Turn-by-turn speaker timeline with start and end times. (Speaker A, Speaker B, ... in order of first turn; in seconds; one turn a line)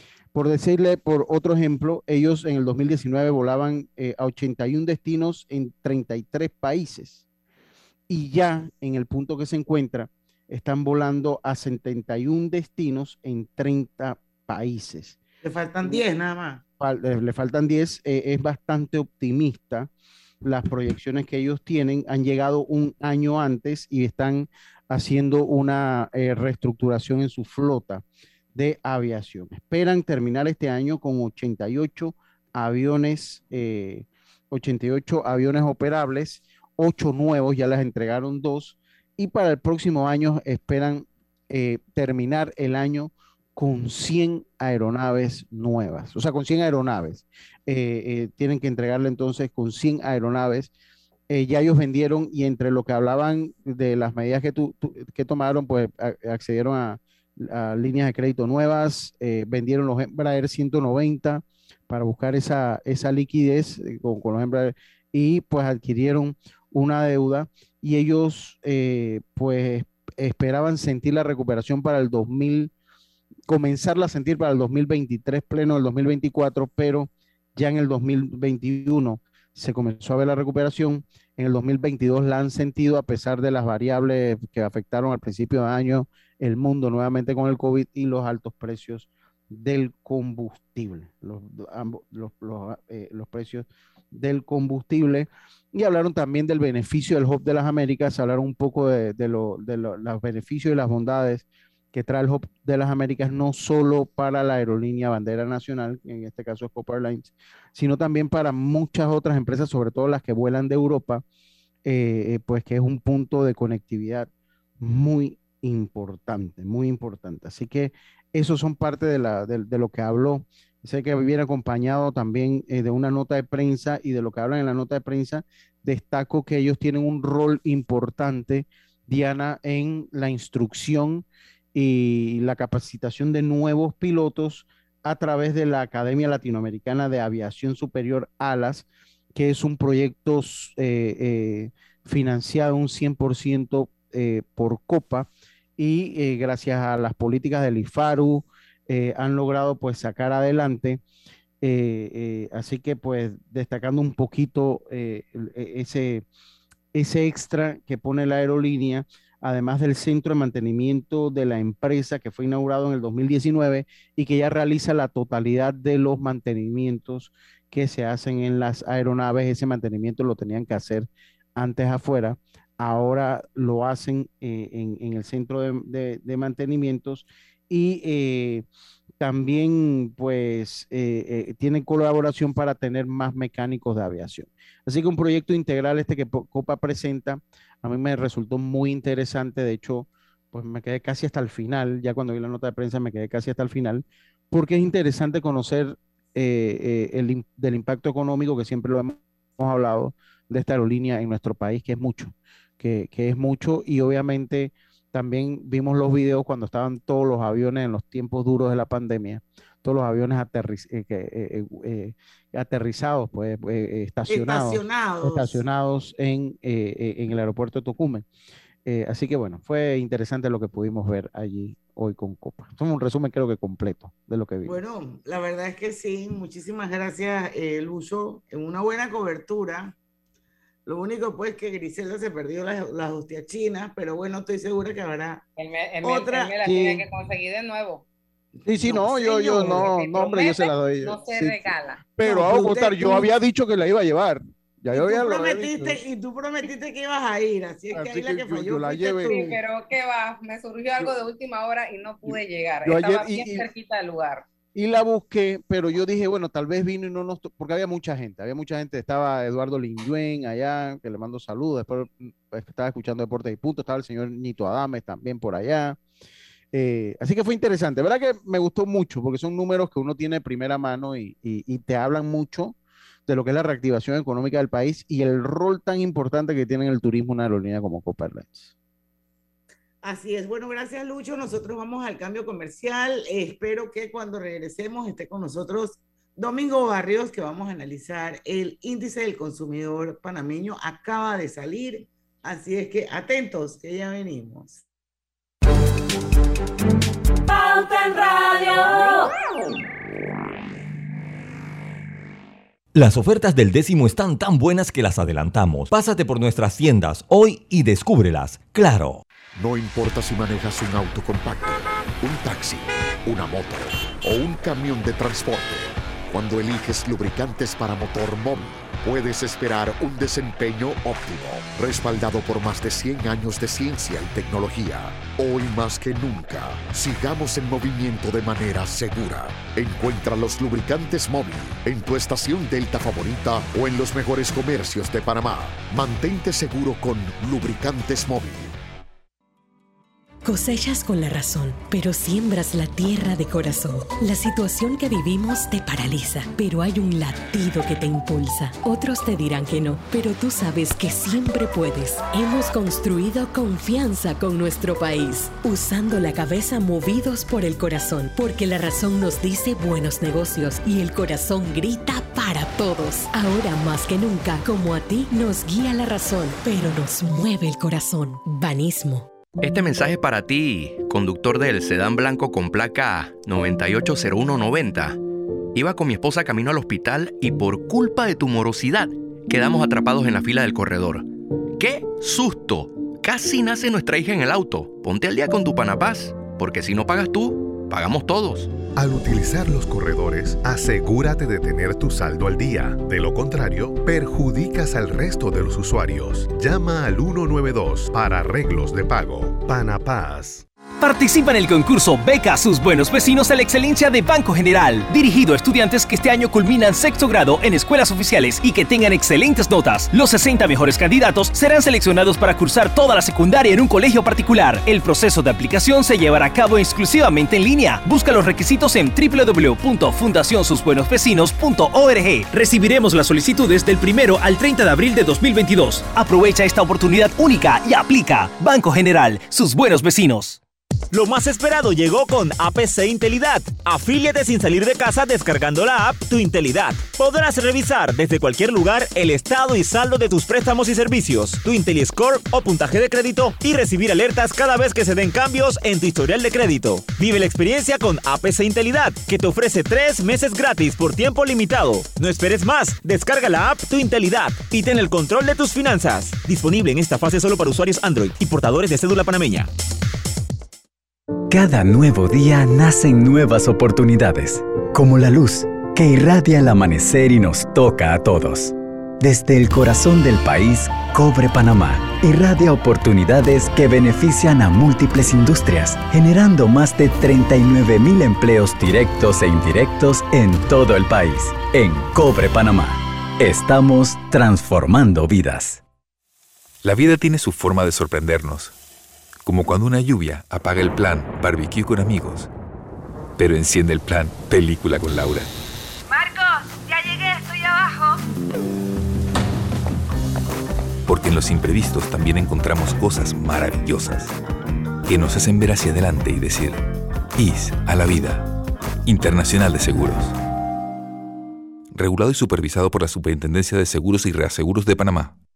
Speaker A: 0.3-7.2
Speaker A: 8.1-15.2
Speaker B: 15.4-16.6
Speaker A: 16.8-19.9
Speaker A: 20.4-28.0
Speaker A: 28.5-50.7
Speaker A: 51.3-72.7
Speaker A: 73.5-111.2
Speaker A: 111.8-114.3
Speaker A: 114.8-151.0
Speaker A: 151.6-156.2
Speaker A: 156.9-178.6
Speaker A: 179.2-218.2
Speaker B: 214.3-215.6
Speaker A: 218.8-224.8
Speaker B: 224.6-229.9
Speaker B: 230.8-235.4
Speaker C: 235.6-238.1
Speaker B: 236.0-236.5
Speaker A: 236.6-237.0
Speaker A: 238.6-246.0
Speaker B: 238.8-239.8
Speaker C: 239.5-242.1
Speaker B: 242.2-243.2
Speaker B: 244.9-249.3
Speaker A: 247.9-249.6
Speaker C: 249.2-254.4
Speaker A: 252.2-253.7
Speaker A: 254.7-266.0
Speaker A: 266.7-272.8
Speaker A: 273.3-278.7
Speaker B: 280.0-294.8
Speaker C: 297.8-299.0
Speaker D: 302.9-309.2
Speaker E: 309.5-338.7
Speaker F: 340.4-369.3
Speaker G: 369.6-375.2
Speaker G: 375.7-388.7
Speaker H: 388.9-400.6
Speaker I: 401.0-430.6
Speaker J: 431.1-459.7
Speaker K: 461.5-485.8
Speaker L: 486.8-488.7
Speaker L: 489.4-492.5
Speaker L: 493.4-495.5
Speaker L: 501.1-504.3
Speaker L: 505.1-508.5
Speaker L: 509.0-510.4
Speaker L: 511.9-515.4